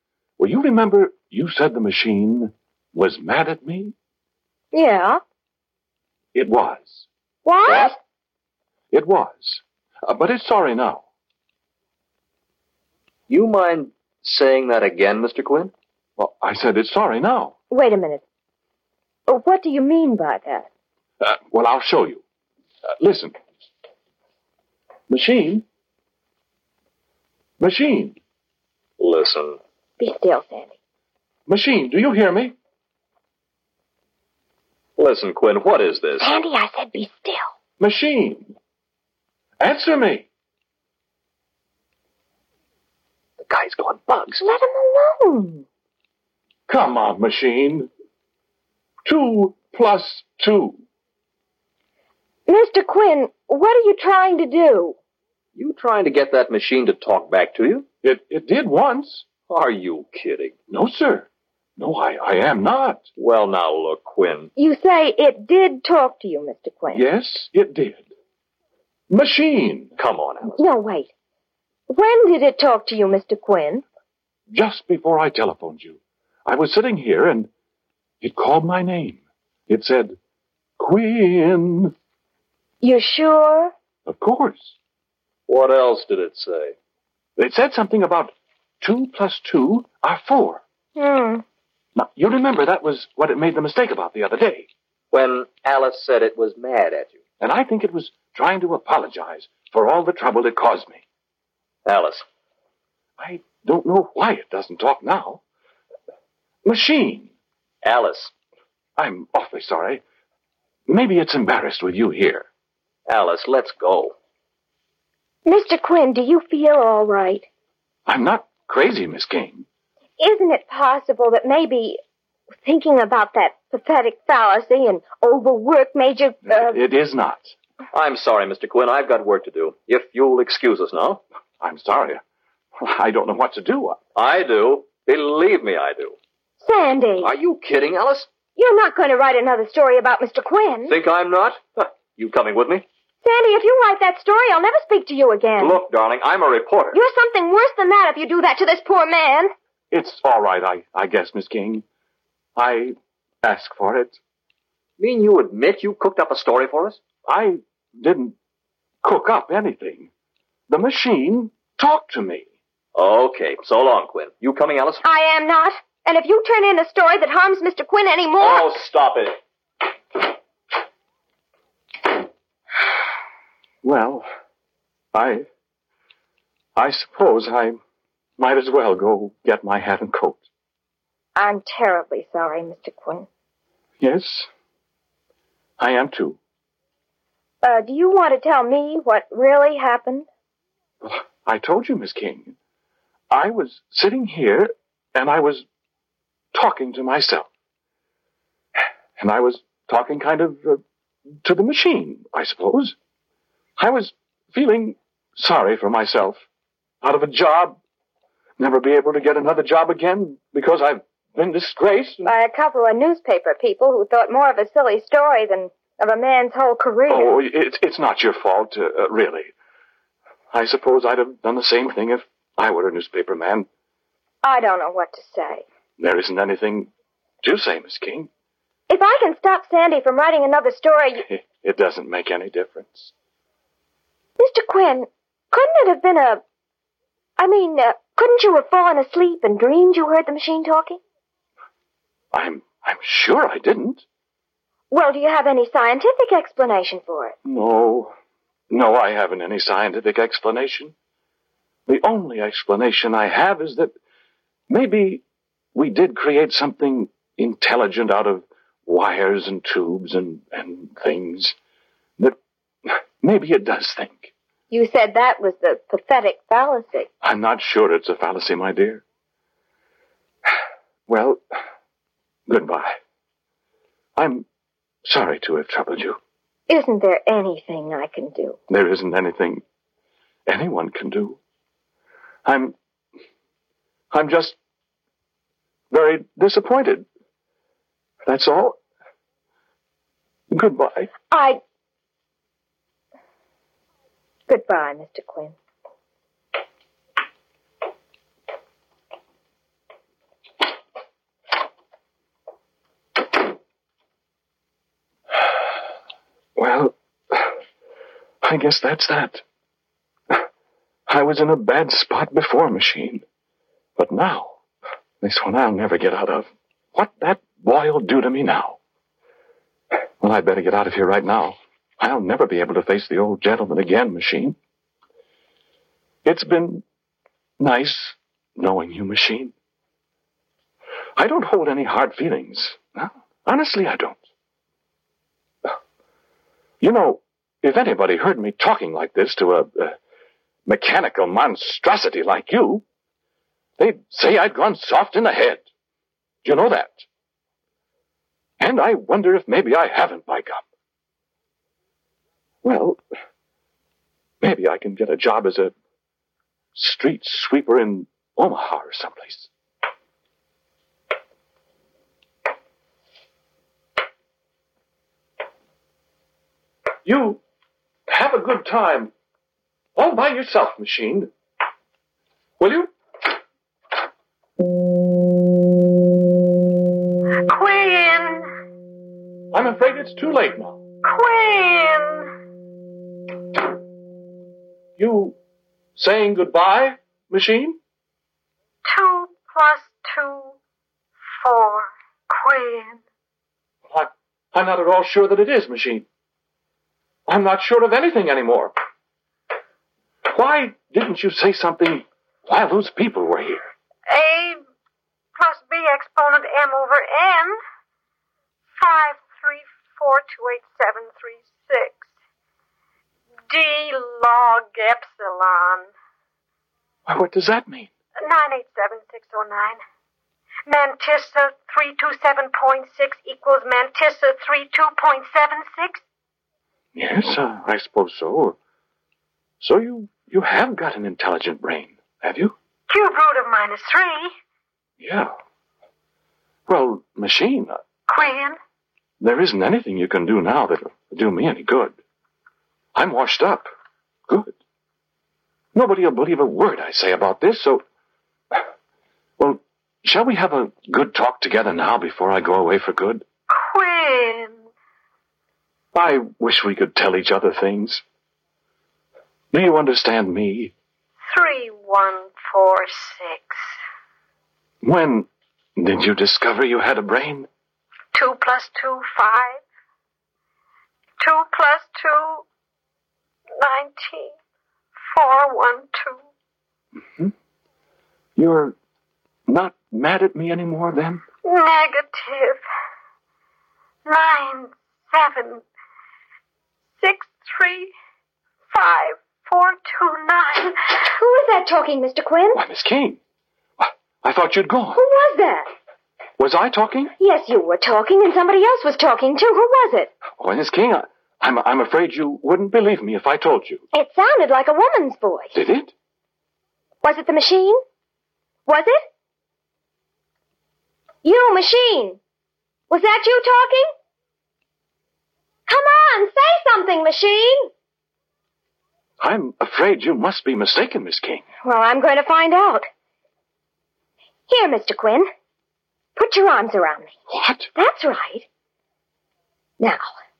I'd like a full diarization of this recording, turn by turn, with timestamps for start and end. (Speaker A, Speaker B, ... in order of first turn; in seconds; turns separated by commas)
Speaker A: 0.4-3.9, Speaker B: 4.7-5.2, Speaker A: 6.3-7.1, Speaker B: 7.4-8.0, Speaker A: 8.9-11.1, Speaker C: 13.3-15.7, Speaker A: 16.2-17.5, Speaker B: 17.7-18.2, Speaker B: 19.3-20.7, Speaker A: 21.2-22.2, Speaker A: 23.0-23.4, Speaker A: 25.1-25.6, Speaker A: 27.6-28.2, Speaker C: 29.0-29.6, Speaker B: 30.0-30.7, Speaker A: 31.5-32.5, Speaker C: 35.0-36.4, Speaker B: 36.2-37.5, Speaker A: 37.8-38.5, Speaker A: 39.6-40.3, Speaker C: 43.4-44.4, Speaker B: 44.4-45.6, Speaker A: 46.7-47.9, Speaker A: 49.0-50.8, Speaker B: 52.5-55.0, Speaker C: 55.5-57.8, Speaker A: 58.0-59.3, Speaker C: 59.5-60.5, Speaker A: 60.7-63.0, Speaker C: 63.2-64.5, Speaker B: 64.6-67.0, Speaker A: 66.9-68.0, Speaker A: 69.1-69.9, Speaker C: 70.0-70.5, Speaker B: 70.5-71.1, Speaker B: 71.9-73.8, Speaker A: 74.5-77.5, Speaker A: 78.2-80.2, Speaker A: 80.8-81.9, Speaker B: 82.8-83.7, Speaker A: 84.1-84.8, Speaker C: 85.5-86.7, Speaker A: 87.4-90.6, Speaker B: 91.0-91.4, Speaker A: 91.9-94.7, Speaker C: 95.1-97.2, Speaker A: 97.4-101.0, Speaker C: 101.8-102.2, Speaker A: 103.2-105.4, Speaker A: 106.6-107.3, Speaker C: 107.8-108.3, Speaker A: 109.0-110.0, Speaker A: 110.9-112.5, Speaker C: 113.1-114.1, Speaker B: 115.5-117.5, Speaker A: 118.0-119.7, Speaker B: 120.2-122.0, Speaker B: 122.6-126.8, Speaker A: 126.5-127.5, Speaker C: 127.9-131.2, Speaker A: 131.6-132.2, Speaker A: 132.8-134.0, Speaker C: 134.1-136.2, Speaker B: 136.6-137.3, Speaker C: 137.2-138.3, Speaker B: 138.6-140.9, Speaker C: 140.9-142.8, Speaker B: 143.2-145.8, Speaker C: 145.6-147.0, Speaker B: 146.9-149.5, Speaker A: 149.9-151.8, Speaker A: 152.6-154.2, Speaker C: 155.0-157.0, Speaker A: 157.2-158.3, Speaker A: 159.0-160.1, Speaker A: 160.7-162.5, Speaker C: 162.9-165.0, Speaker B: 165.0-168.7, Speaker C: 168.4-169.4, Speaker A: 173.8-174.3, Speaker A: 175.1-175.4, Speaker A: 176.8-177.8, Speaker A: 178.4-180.4, Speaker B: 181.3-183.3, Speaker A: 184.0-184.5, Speaker A: 185.8-186.4, Speaker B: 187.6-190.3, Speaker A: 191.0-192.6, Speaker A: 193.3-195.6, Speaker A: 196.5-197.5, Speaker A: 199.2-200.8, Speaker A: 201.4-202.9, Speaker A: 203.8-206.4, Speaker A: 207.0-207.8, Speaker A: 208.6-212.3, Speaker B: 212.2-217.3, Speaker A: 217.1-219.5, Speaker A: 220.5-223.7, Speaker B: 224.4-225.6, Speaker A: 226.0-226.9, Speaker A: 227.4-228.3, Speaker B: 228.9-231.2, Speaker A: 231.2-233.1, Speaker B: 234.4-236.4, Speaker B: 237.4-241.0, Speaker A: 242.3-244.0, Speaker B: 244.9-247.3, Speaker A: 247.4-248.1, Speaker A: 248.7-250.9, Speaker A: 251.9-253.9, Speaker A: 254.7-255.2, Speaker A: 255.7-261.5, Speaker A: 262.2-264.3, Speaker B: 264.7-267.1, Speaker A: 267.2-269.0, Speaker A: 271.1-271.4, Speaker A: 272.5-273.0, Speaker A: 274.1-274.5, Speaker A: 275.0-276.2, Speaker B: 276.7-278.6, Speaker A: 278.7-279.6, Speaker A: 280.5-281.4, Speaker A: 282.4-282.7, Speaker A: 284.1-284.6, Speaker A: 285.9-287.1, Speaker A: 288.2-288.8, Speaker A: 290.5-291.1, Speaker B: 291.3-291.6, Speaker B: 294.5-295.5, Speaker A: 306.6-307.5, Speaker A: 308.4-309.4, Speaker A: 311.1-313.2, Speaker A: 313.9-314.6, Speaker A: 315.2-318.8, Speaker A: 320.2-324.6, Speaker A: 326.2-326.8, Speaker A: 327.6-329.5, Speaker A: 331.1-334.2, Speaker A: 336.8-340.0, Speaker A: 340.6-342.8, Speaker A: 343.8-345.6, Speaker A: 346.4-347.1, Speaker A: 348.6-350.6, Speaker A: 352.6-353.0, Speaker A: 354.4-355.7, Speaker A: 356.7-359.5, Speaker A: 367.0-367.4, Speaker A: 368.1-369.1, Speaker A: 369.9-371.3, Speaker A: 372.6-372.9, Speaker D: 377.5-378.5, Speaker A: 379.5-380.8, Speaker D: 381.0-382.3, Speaker A: 385.0-385.4, Speaker A: 385.9-387.8, Speaker D: 388.9-390.5, Speaker D: 391.4-393.0, Speaker A: 393.9-396.1, Speaker A: 397.3-398.7, Speaker A: 400.2-403.6, Speaker D: 404.1-404.6, Speaker D: 405.4-407.6, Speaker D: 408.8-412.1, Speaker D: 413.5-415.9, Speaker A: 417.1-417.9, Speaker D: 418.2-419.8, Speaker D: 420.7-426.0, Speaker A: 426.9-428.6, Speaker A: 429.6-432.6, Speaker D: 432.9-434.3, Speaker A: 435.0-435.3, Speaker A: 436.7-437.8, Speaker D: 438.1-438.6, Speaker A: 439.2-442.0, Speaker A: 442.9-443.7, Speaker A: 444.3-444.5, Speaker A: 445.7-447.8, Speaker A: 449.4-453.2, Speaker D: 453.5-454.6, Speaker A: 455.9-458.0, Speaker A: 459.5-460.7, Speaker D: 461.3-463.7, Speaker A: 464.8-467.5, Speaker D: 468.1-469.6, Speaker D: 471.2-472.4, Speaker D: 473.6-474.3, Speaker D: 475.1-476.2, Speaker A: 478.4-478.8, Speaker A: 479.5-481.2, Speaker D: 481.4-482.6, Speaker D: 484.1-485.6, Speaker D: 487.0-487.9, Speaker D: 488.7-491.0, Speaker B: 491.2-492.6, Speaker A: 492.5-493.2, Speaker A: 493.8-495.0, Speaker B: 494.9-495.7, Speaker A: 496.4-497.1, Speaker B: 497.2-500.1, Speaker A: 500.4-503.8, Speaker B: 503.9-505.6, Speaker A: 505.5-505.9, Speaker B: 507.0-507.8, Speaker B: 508.6-509.0, Speaker B: 511.2-512.2, Speaker B: 512.9-513.9, Speaker B: 515.7-517.7, Speaker A: 519.2-521.4, Speaker B: 521.6-522.9, Speaker B: 524.5-525.3, Speaker B: 526.1-527.1, Speaker A: 527.3-527.7, Speaker B: 527.7-528.5